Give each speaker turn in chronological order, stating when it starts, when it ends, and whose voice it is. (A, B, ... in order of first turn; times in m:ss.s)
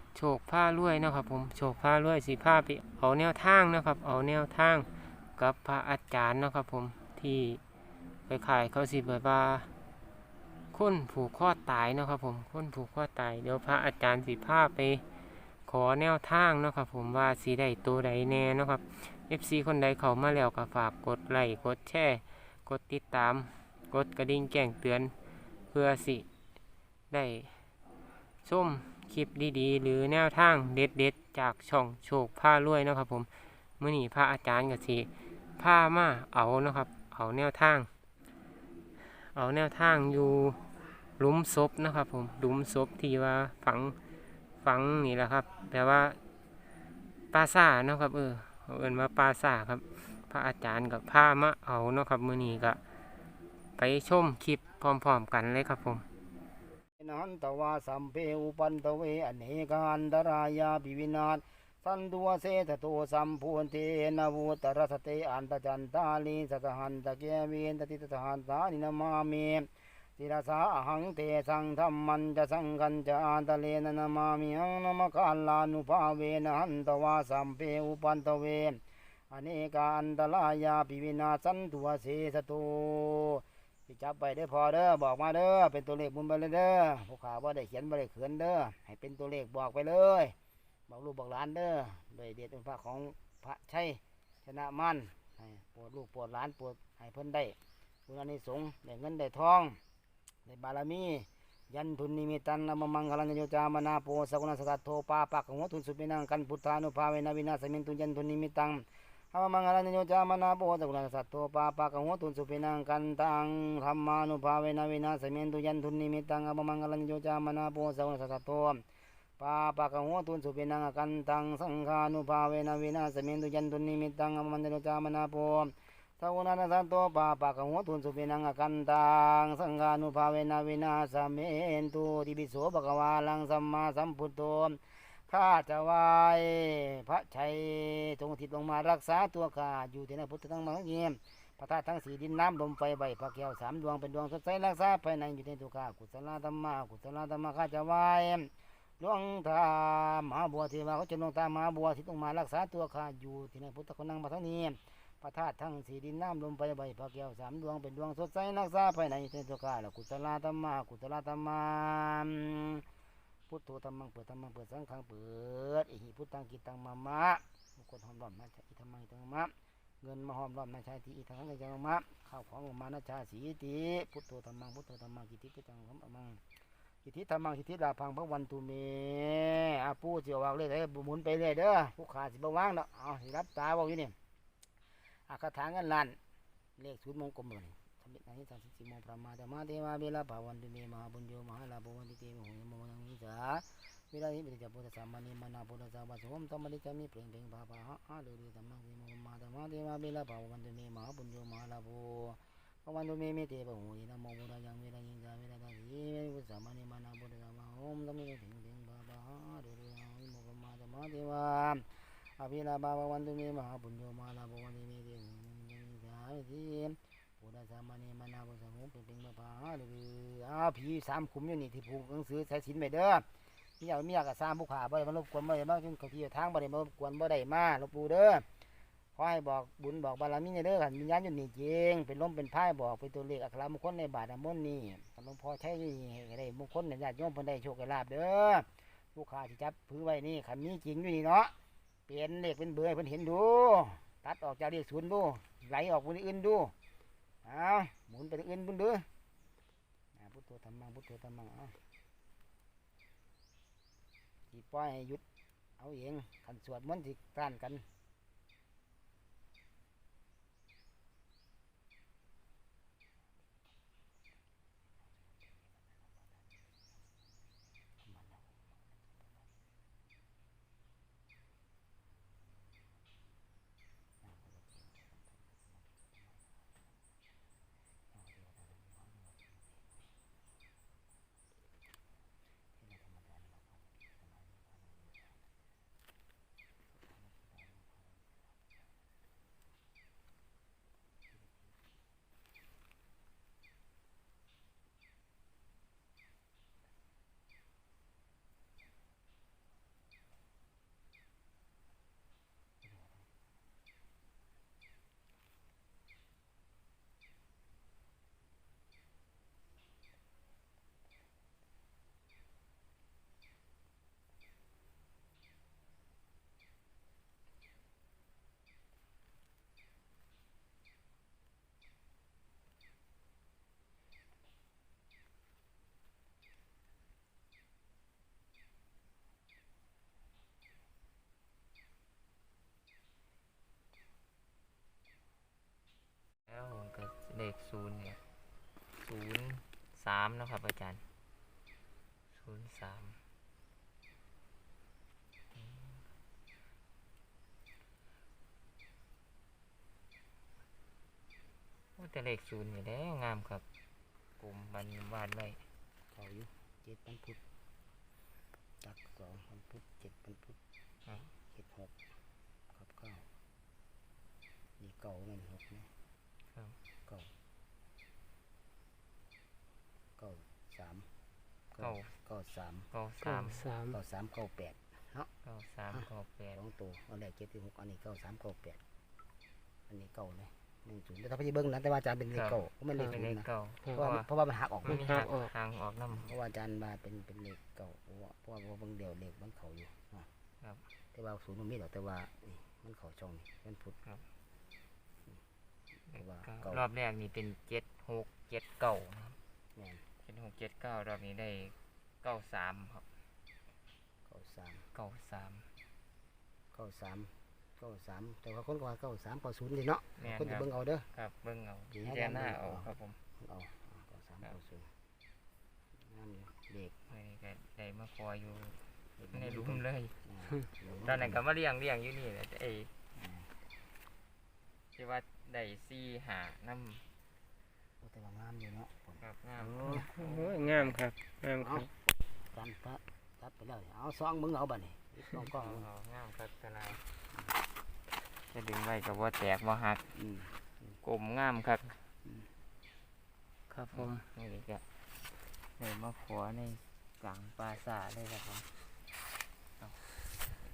0:00.2-0:07.6 A
0:08.3-0:09.7 A
0:10.7-0:15.0 A
0:15.7-0:25.1 A
0:25.7-0:26.3 A
0:27.1-0:27.6 A
0:28.4-0:37.9 A
0:39.2-0:40.6 A
0:41.2-0:44.0 A
0:44.6-0:46.2 A
0:47.3-0:52.8 A
0:53.8-0:56.0 A
0:57.0-1:30.4 B
1:30.9-1:37.6 B
1:38.1-1:39.8 B
1:40.4-1:58.8 B
1:59.4-2:42.8 B
2:43.5-2:56.4 B
2:57.0-3:04.2 B
3:05.3-3:06.2 B
3:06.8-3:31.9 B
3:32.4-3:43.2 B
3:43.8-3:48.4 B
3:49.2-4:01.5 B
4:02.1-4:06.7 B
4:07.4-4:09.1 B
4:10.2-4:11.8 B
4:14.5-4:15.2 B
4:15.8-4:17.8 B
4:28.0-4:28.7 B
4:34.2-4:36.2 B
4:38.1-4:39.8 B
4:42.8-4:45.3 B
4:47.1-4:48.3 B
5:36.5-5:38.2 C
5:39.0-5:41.0 C
5:42.3-5:43.2 C
5:45.5-5:46.0 C
5:52.0-5:53.6 C
5:54.4-5:55.6 C
5:56.1-5:57.4 B
5:58.8-6:00.6 B
6:01.5-6:01.9 B
6:02.7-6:03.3 B
6:04.8-6:05.9 B
6:10.2-6:11.1 B
6:11.7-6:12.9 B
6:11.8-6:12.1 C
6:12.9-6:13.7 C
6:13.2-6:14.0 A
6:13.9-6:15.3 B
6:15.4-6:16.6 C
6:16.5-6:18.8 B
6:19.9-6:25.1 B
6:22.3-6:24.3 C
6:24.8-6:26.4 C
6:24.9-6:25.5 A
6:26.1-6:30.3 B
6:31.1-6:34.0 B
6:36.1-6:39.4 C
6:36.1-6:36.8 B
6:39.8-6:40.0 B
6:40.2-6:43.0 C
6:44.3-6:44.8 B
6:44.9-6:45.7 C
6:46.7-6:51.1 B
6:50.2-6:53.2 C
6:51.9-6:54.9 B
6:56.0-6:56.9 B
6:57.1-6:58.8 C
6:59.2-7:01.4 B
6:59.3-7:00.2 C
7:01.0-7:02.9 C
7:03.2-7:03.5 B
7:05.0-7:07.0 C
7:08.0-7:10.1 B
7:09.2-7:11.0 C
7:09.9-7:11.9 A
7:11.6-7:11.9 B
7:12.5-7:15.9 B
7:15.4-7:17.0 C
7:18.5-7:20.1 C
7:20.2-7:21.0 B
7:21.0-7:22.0 C
7:23.7-7:24.2 A
7:23.9-7:24.8 C
7:25.8-7:28.7 C